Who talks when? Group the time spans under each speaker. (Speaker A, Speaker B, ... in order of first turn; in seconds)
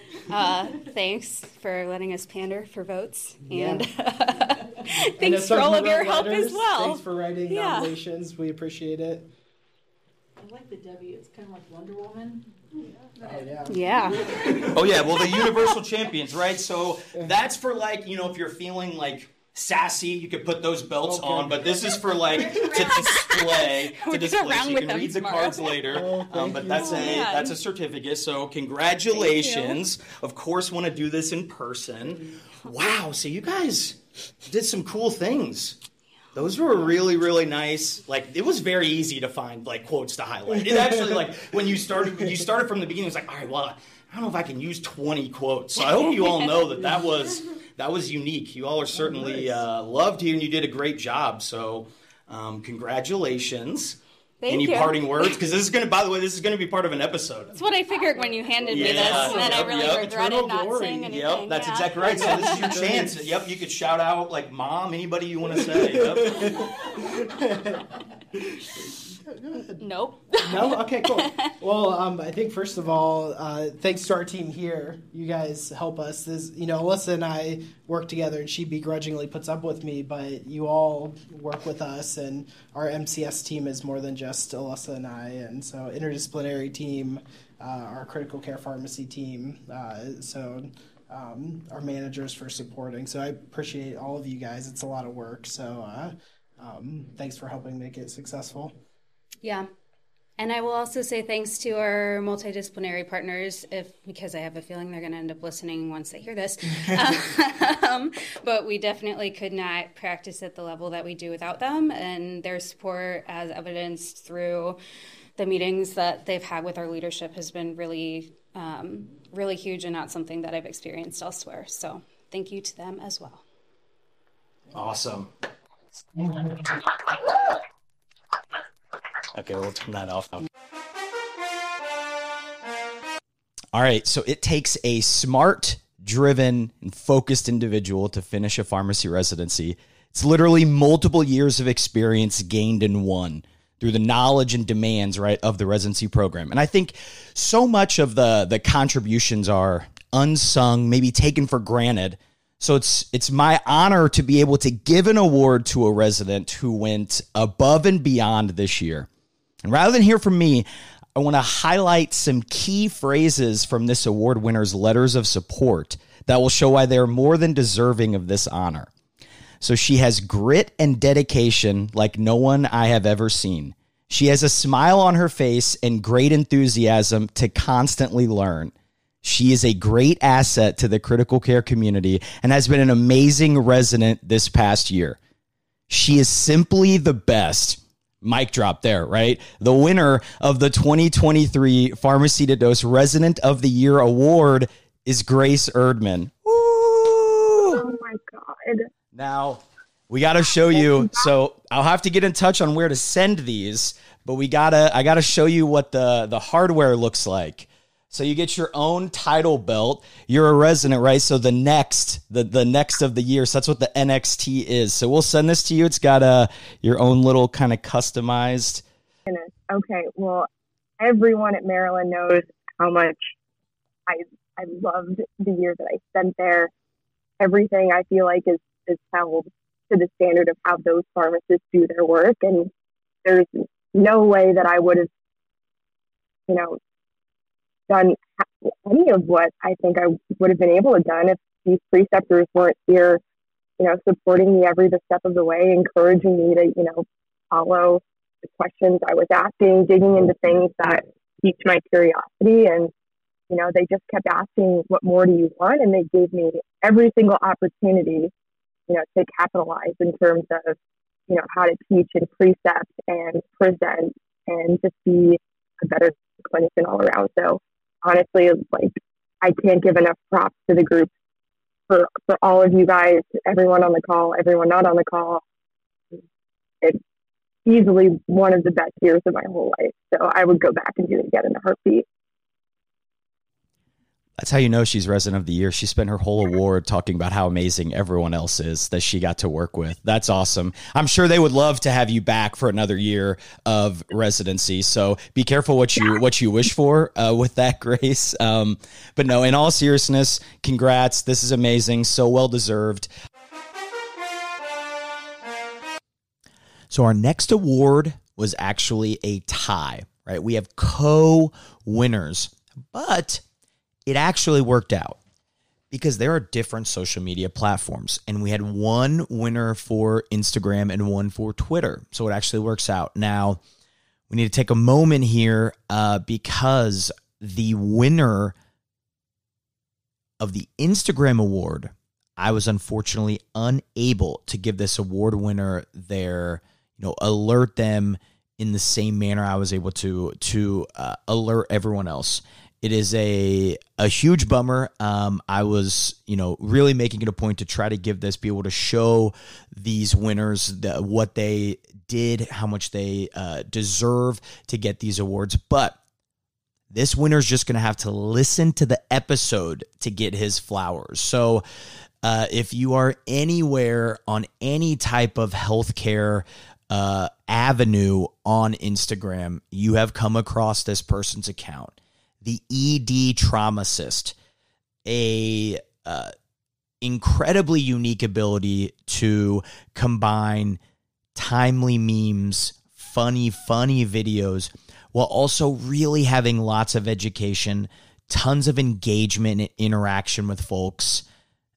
Speaker A: 0.3-7.0, 7.5-7.9, 13.7-14.3, 22.5-25.9, 26.7-27.6, 29.1-29.8, 46.2-46.4, 54.4-55.5, 57.5-63.0, 69.6-71.5, 99.4-99.7, 100.4-114.8, 115.4-123.4
Speaker B: 3.5-3.9, 4.9-9.3, 13.2-15.2, 21.0-23.2, 25.9-27.4, 49.0-49.6, 58.2-61.3, 62.0-63.3, 65.6-68.7, 69.3-69.8, 70.3-98.8
Speaker C: 10.4-14.5
Speaker D: 14.7-35.8, 36.4-57.5, 58.7-60.1, 61.1-66.4, 124.7-125.3, 129.3-130.4, 133.7-159.1, 159.6-160.7, 161.2-168.9, 169.6-185.2, 185.9-197.8, 199.1-218.8, 284.4-303.1, 306.9-313.4, 314.1-315.2, 315.9-323.6, 324.3-328.5, 330.4-356.0, 356.9-361.6, 362.2-374.4, 375.1-376.3, 377.0-380.8, 381.4-391.2
Speaker E: 197.7-198.8, 219.3-220.5, 221.0-223.2, 224.1-226.7, 227.4-232.7, 233.2-235.1, 236.5-236.8, 237.9-238.2, 238.8-243.2, 243.8-252.9, 253.5-258.3, 258.9-260.8, 261.3-271.1, 271.9-275.4, 277.7-282.0